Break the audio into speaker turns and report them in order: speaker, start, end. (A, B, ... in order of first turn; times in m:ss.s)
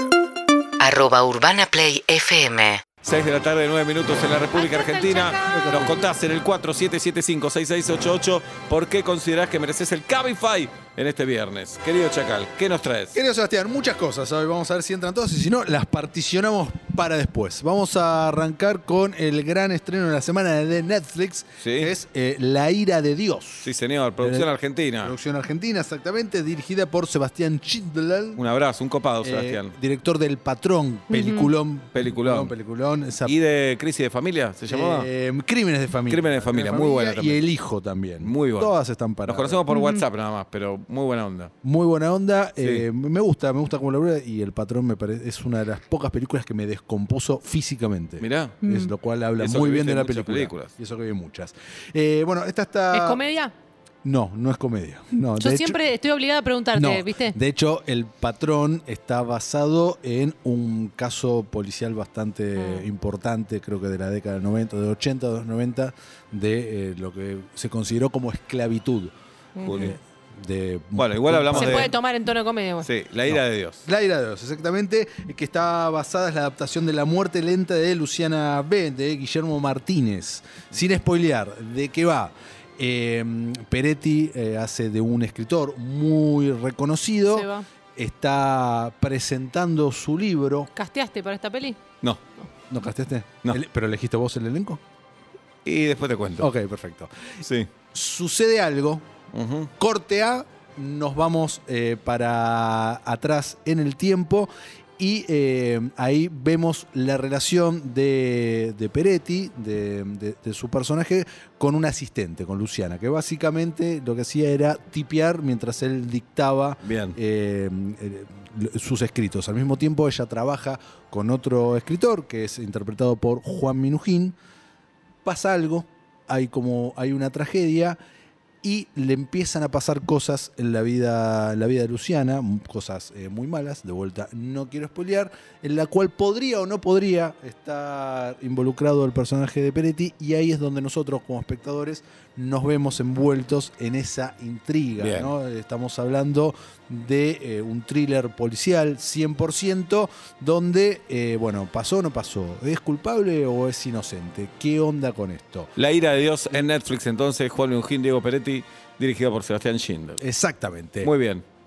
0:00.8-0:02.8 A
0:03.0-0:13.2 B
0:04.5-0:05.8 C
0:05.5-0:06.0 D
0:13.1-0:24.5 D
0:21.6-0:21.9 B
0:23.6-0:25.1 B
0:25.0-0:28.4 D
0:28.4-0:29.7 B
0:29.2-0:33.4 D
0:31.1-0:31.5 C
0:31.9-0:32.5 B
0:33.2-0:35.1 B
0:34.7-0:39.6 D
0:36.1-0:37.4 B
0:38.2-0:38.7 B
0:39.2-0:41.5 B
0:39.7-0:40.0 C
0:41.6-0:53.2 D
0:42.6-0:42.8 B
0:48.2-0:48.6 B
0:48.6-0:48.9 C
0:49.4-0:50.7 B
0:52.9-0:53.5 C
0:54.0-0:55.8 D
0:55.4-0:57.4 C
0:56.7-1:09.1 D
1:02.6-1:02.9 C
1:09.6-1:10.0 B
1:09.7-1:11.9 D
1:11.0-1:11.9 B
1:11.6-1:12.9 C
1:12.8-1:13.8 B
1:13.3-1:30.7 D
1:27.3-1:27.7 C
1:30.7-1:31.8 C
1:32.7-1:34.8 D
1:35.6-1:36.5 B
1:36.4-1:37.2 D
1:37.4-1:37.7 B
1:37.9-1:39.1 D
1:39.3-1:39.7 B
1:39.8-2:04.4 D
1:56.8-1:57.2 B
2:05.2-2:08.0 D
2:08.6-2:35.7 D
2:25.0-2:25.3 B
2:35.8-2:40.2 B
2:40.2-2:41.1 D
2:41.0-2:41.4 B